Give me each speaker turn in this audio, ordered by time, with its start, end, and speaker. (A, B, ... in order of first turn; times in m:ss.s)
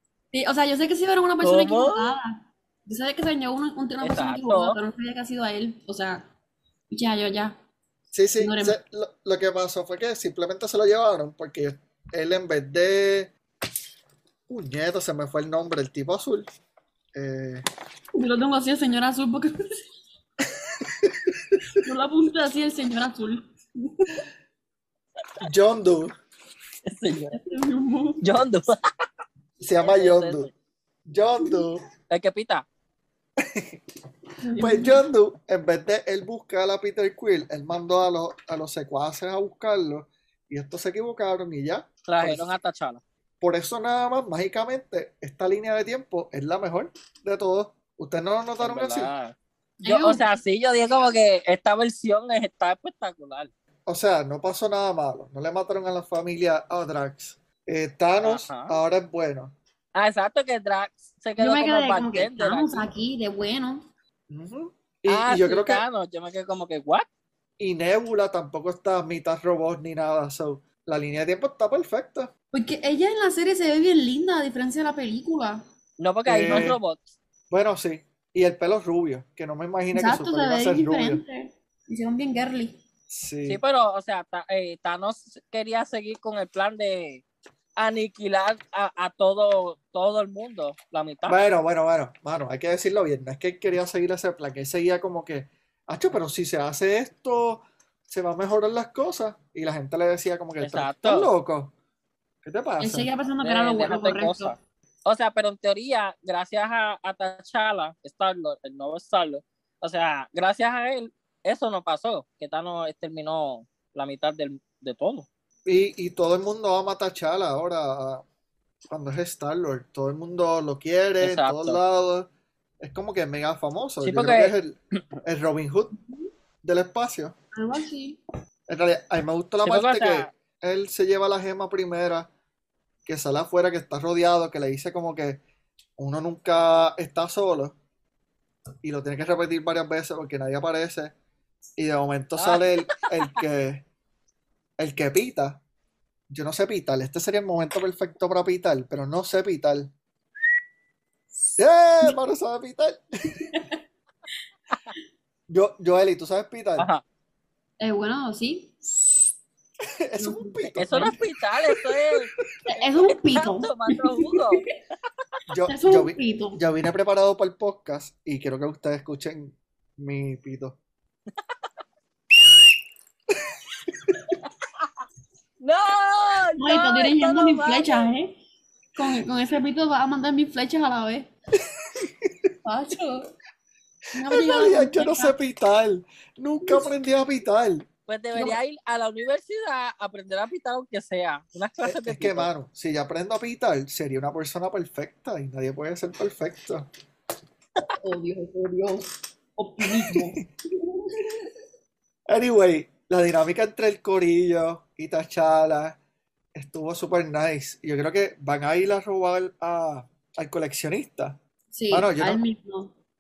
0:00.3-0:06.3 A
0:01.4-0:02.2 B
0:04.0-0:04.8 B
0:06.9-0:07.6 A
0:08.1-0:13.3 C
0:08.4-0:08.8 A
0:14.5-0:16.5 C
0:17.1-0:17.6 C
0:18.1-0:19.5 A
0:20.8-0:21.6 C
0:21.7-0:24.2 A
0:25.4-0:26.1 C
0:26.9-0:27.4 B
0:27.3-0:28.3 A
0:28.2-0:28.8 B
0:29.6-0:30.5 C
0:29.8-0:30.5 B
0:31.1-0:31.8 C
0:32.1-0:32.6 B
0:33.4-0:33.8 C
0:34.4-0:35.0 A
0:34.6-0:42.5 C
0:42.1-0:43.0 B
0:43.4-0:49.1 C
0:48.6-0:53.5 B
0:49.8-0:50.4 A
0:53.9-0:59.6 C
0:58.2-0:58.8 B
1:00.0-1:02.8 B
1:01.4-1:03.9 A
1:04.3-1:05.8 C
1:05.1-1:07.1 B
1:07.6-1:12.3 C
1:12.5-1:15.6 A
1:16.0-1:17.0 B
1:16.2-1:16.8 C
1:17.5-1:21.2 C
1:19.9-1:22.8 A
1:23.1-1:23.6 C
1:23.5-1:27.2 B
1:27.8-1:31.4 B
1:31.3-1:41.7 C
1:40.6-1:41.3 B
1:42.4-1:43.1 C
1:42.8-1:44.6 A
1:43.4-1:55.3 B
1:55.7-1:58.2 C
1:58.9-2:06.0 C
2:01.2-2:01.8 B
2:04.0-2:04.5 B
2:06.0-2:06.3 A
2:06.6-2:07.4 C
2:07.5-2:08.2 A
2:08.7-2:12.3 C
2:09.6-2:10.3 B
2:13.1-2:15.4 C
2:16.0-2:17.8 C
2:18.8-2:21.1 C
2:21.8-2:23.9 C
2:22.4-2:23.4 B
2:24.8-2:25.6 C
2:26.3-2:29.9 C
2:31.6-2:33.4 C
2:33.5-2:33.8 A
2:35.5-2:36.9 C
2:36.8-2:37.0 B
2:37.8-2:38.7 A
2:38.8-2:39.3 C
2:40.0-2:41.8 C
2:40.2-2:41.1 A
2:40.8-2:42.3 B
2:42.7-2:44.7 A
2:43.1-2:44.6 B
2:45.5-2:50.8 C
2:45.7-2:46.6 A
2:55.6-2:58.1 B
2:56.6-2:58.4 A
2:59.0-3:01.3 A
3:01.8-3:02.3 C
3:02.6-3:03.3 A
3:04.1-3:05.4 A
3:04.2-3:07.9 C
3:08.1-3:12.5 B
3:11.8-3:16.9 C
3:18.0-3:21.4 A
3:20.1-3:20.5 C
3:22.3-3:26.0 C
3:26.6-3:31.4 C
3:31.7-3:32.9 A
3:31.9-3:32.4 C